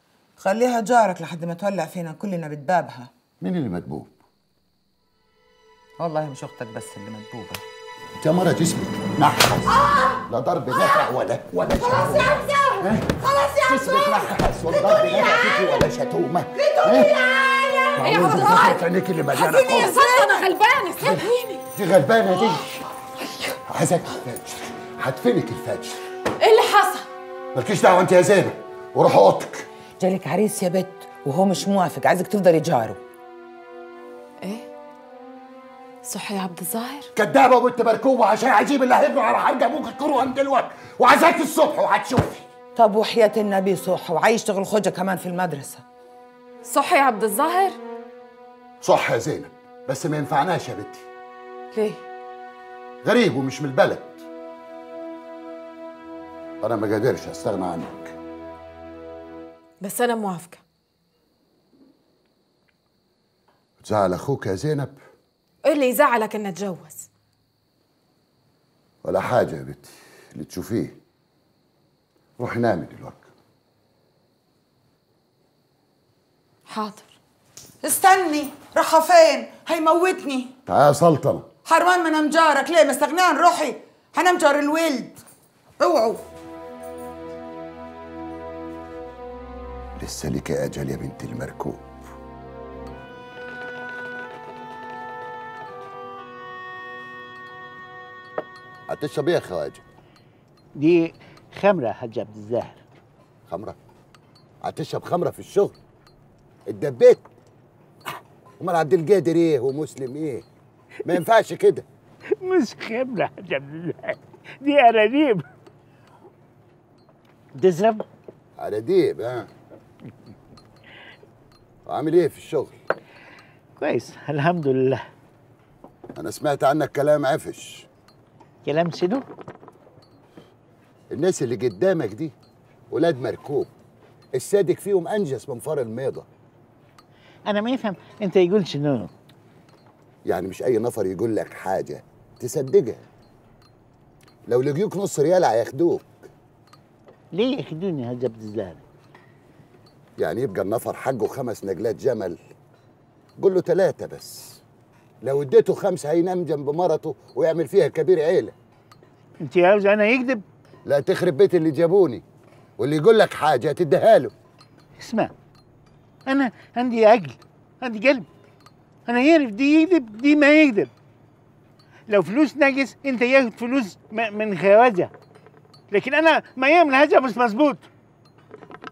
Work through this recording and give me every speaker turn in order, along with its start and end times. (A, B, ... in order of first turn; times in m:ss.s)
0:00.4-0:03.1 A
0:03.4-0:04.1 B
0:06.0-0:07.6 A
0:08.2-0:17.1 B
0:09.7-0:10.2 A
0:10.7-0:11.1 A
0:11.8-0:15.8 A
0:16.6-0:18.7 A
0:18.0-0:20.1 B
0:18.0-0:18.8 C
0:19.3-0:21.6 C
0:21.0-0:22.8 B
0:23.7-0:26.0 B
0:26.4-0:27.1 C
0:27.5-0:29.7 B
0:30.0-0:33.0 A
0:34.4-0:34.7 C
0:36.0-0:37.1 C
0:37.2-0:42.5 B
0:42.7-0:45.8 A
0:46.6-0:47.8 C
0:48.8-0:51.0 B
0:51.7-0:52.0 C
0:53.0-0:54.2 B
0:56.6-0:58.2 B
0:59.8-1:00.6 C
1:03.8-1:05.0 B
1:05.6-1:07.1 C
1:09.0-1:11.0 B
1:12.4-1:13.3 B
1:16.7-1:17.1 C
1:17.8-1:20.5 A
1:20.6-1:21.5 B
1:21.6-1:25.2 A
1:25.8-1:26.2 A
1:30.0-1:31.9 B
1:38.9-1:39.8 B
1:40.8-1:42.8 D
1:43.5-1:43.8 B
1:44.6-1:45.8 B
1:46.7-1:47.2 B
1:48.6-1:50.4 B
1:51.0-1:51.8 B
1:52.4-1:55.4 D
1:57.6-1:58.0 D
1:58.6-1:59.5 B
2:01.8-2:02.8 B
2:03.8-2:05.0 D
2:06.2-2:07.9 B
2:08.6-2:09.2 D
2:11.1-2:12.3 B
2:12.9-2:13.7 B
2:14.3-2:16.3 B
2:17.5-2:19.1 D
2:20.2-2:23.0 B
2:24.5-2:26.3 B
2:27.3-2:28.8 D
2:30.2-2:32.4 B
2:33.4-2:34.6 B
2:35.2-2:38.5 B
2:39.4-2:40.4 D
2:40.9-2:42.2 B
2:42.8-2:44.3 B
2:45.0-2:45.3 D
2:46.3-2:48.3 D
2:49.1-2:50.9 D
2:52.1-2:55.1 D
2:55.9-2:57.9 D